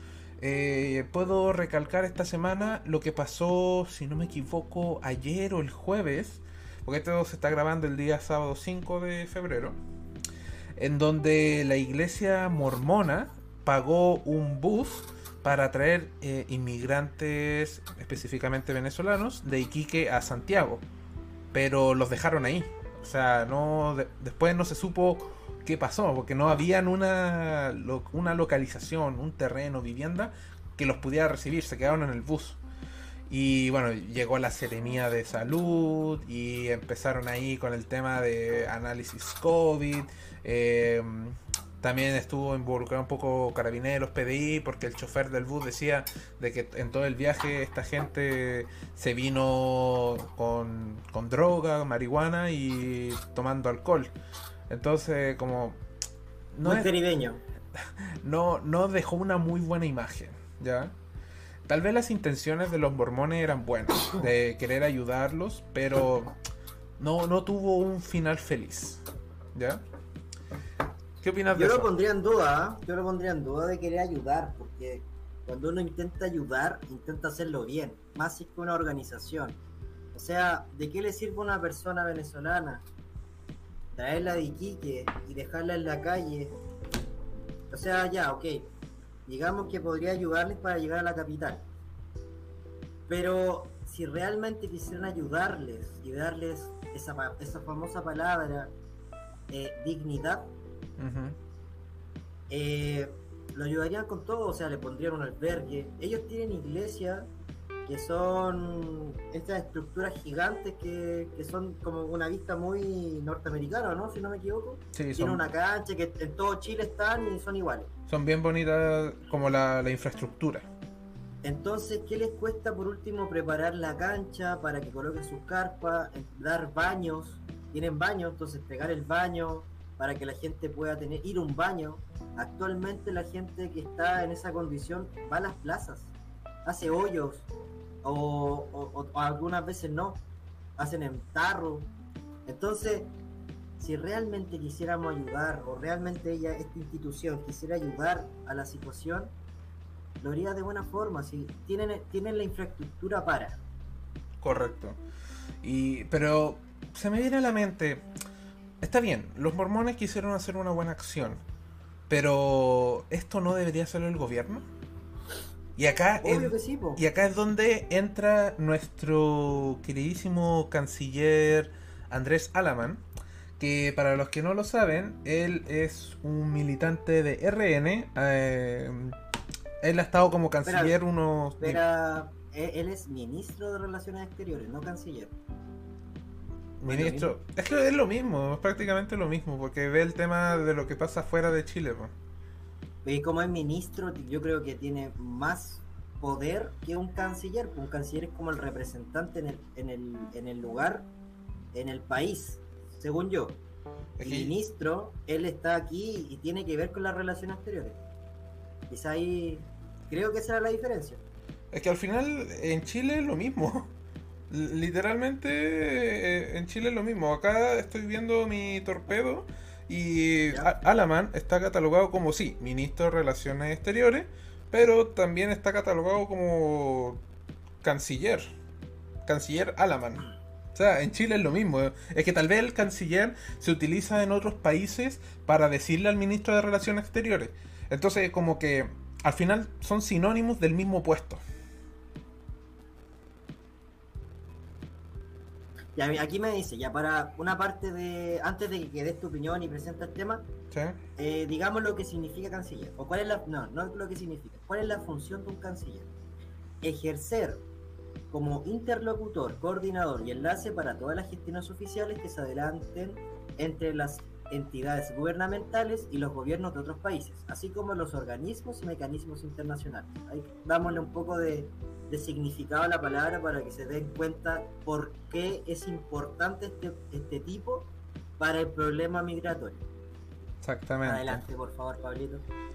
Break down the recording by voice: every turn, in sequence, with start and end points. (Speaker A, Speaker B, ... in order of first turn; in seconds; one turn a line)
Speaker A: 0.4-9.8
Speaker A: 10.8-20.8
Speaker A: 21.5-32.6
Speaker A: 33.3-54.1
Speaker A: 54.7-55.8
Speaker A: 56.5-56.9
Speaker B: 56.6-57.4
Speaker A: 57.8-60.9
Speaker A: 61.6-66.3
Speaker A: 67.0-69.0
Speaker A: 69.5-69.8
Speaker A: 71.2-71.9
Speaker B: 71.5-79.6
Speaker B: 80.1-82.8
Speaker B: 83.9-86.5
Speaker B: 87.7-88.7
Speaker B: 89.2-91.7
Speaker B: 93.1-98.7
Speaker B: 99.5-100.5
Speaker A: 101.0-101.4
Speaker B: 102.5-107.3
Speaker B: 107.8-117.9
Speaker A: 114.9-115.4
Speaker A: 118.1-120.7
Speaker B: 121.4-136.1
Speaker B: 136.6-137.5
Speaker B: 138.0-140.2
Speaker B: 140.8-141.9
Speaker B: 142.4-143.1
Speaker B: 143.8-149.3
Speaker B: 150.2-153.6
Speaker A: 154.4-155.0
Speaker A: 155.6-158.1
Speaker A: 158.8-161.4
Speaker A: 162.1-164.7
Speaker A: 165.8-173.0
Speaker B: 166.2-167.0
Speaker A: 173.6-179.2
Speaker A: 179.8-181.8
Speaker B: 180.6-180.9
Speaker B: 181.6-185.3
Speaker A: 186.8-192.1
Speaker B: 186.8-187.3
Speaker B: 193.0-201.1
Speaker B: 201.7-203.6
Speaker A: 204.2-204.5
Speaker B: 204.2-208.0
Speaker B: 208.9-211.2
Speaker A: 211.7-213.9
Speaker A: 214.5-227.2
Speaker B: 220.5-220.7
Speaker A: 227.8-228.5
Speaker A: 229.2-241.4
Speaker B: 245.9-250.4
Speaker A: 250.7-251.0
Speaker B: 251.2-256.1
Speaker B: 256.8-257.6
Speaker B: 258.3-279.8
Speaker A: 280.6-281.4
Speaker B: 281.0-282.4